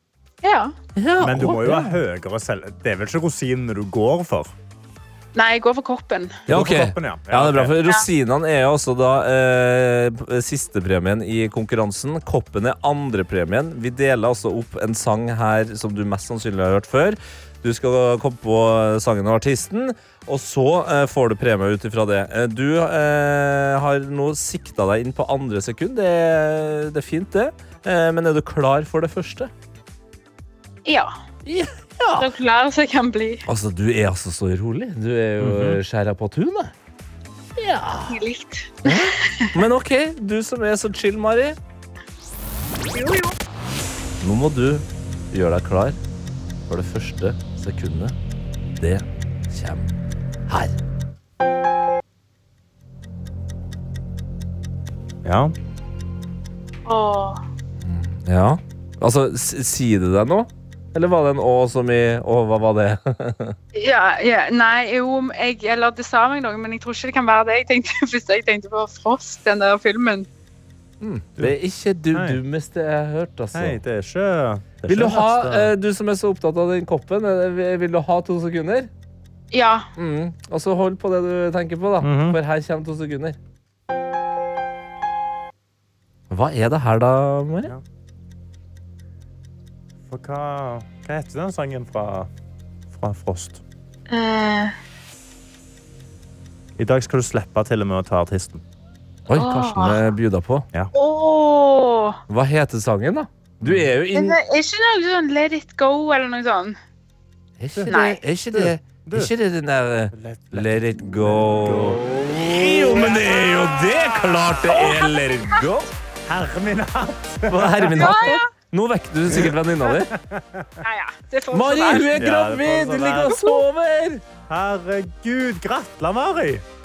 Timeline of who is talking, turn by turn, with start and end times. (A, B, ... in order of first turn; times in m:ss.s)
0:00.4-0:00.7 A
0:01.0-0:02.0 B
0:01.2-0:04.5 C
0:05.3-0:06.4 A
0:06.5-0:07.8 C
0:06.5-0:29.5 B
0:30.8-0:31.1 A
0:31.4-0:32.3 B
0:32.2-0:33.4 A
0:33.4-0:36.7 B
0:35.4-0:35.8 C
0:37.6-0:38.2 B
0:38.1-0:39.5 A
0:38.8-0:41.6 B
0:42.9-0:43.3 A
0:44.2-0:46.0 B
0:46.7-0:48.1 B
0:48.8-0:49.9 B
0:50.5-0:50.8 B
0:55.2-0:55.5 C
0:56.8-0:57.4 A
0:57.8-1:03.6 B
1:03.7-1:10.3 A
1:11.0-1:13.8 B
1:12.1-1:12.4 C
1:13.5-1:15.7 C
1:14.9-1:18.9 B
1:19.5-1:19.8 A
1:20.0-1:23.4 B
1:22.0-1:22.4 C
1:26.3-1:27.7 B
1:30.1-1:32.3 C
1:32.9-1:33.6 C
1:34.1-1:34.7 A
1:36.8-1:38.6 C
1:39.3-1:40.7 B
1:39.3-1:40.0 A
1:40.9-1:42.2 A
1:42.3-1:44.4 B
1:43.6-1:43.9 C
1:44.1-1:46.8 A
1:47.6-1:55.9 B
1:47.9-1:48.2 A
1:48.5-1:49.3 C
1:50.1-1:53.3 C
1:53.0-1:55.6 A
1:56.2-1:58.2 C
1:57.5-2:00.1 B
1:58.0-1:58.5 A
2:00.1-2:00.8 C
2:00.8-2:02.2 A
2:01.5-2:04.2 B
2:02.0-2:03.4 C
2:03.3-2:03.6 A
2:04.5-2:06.6 C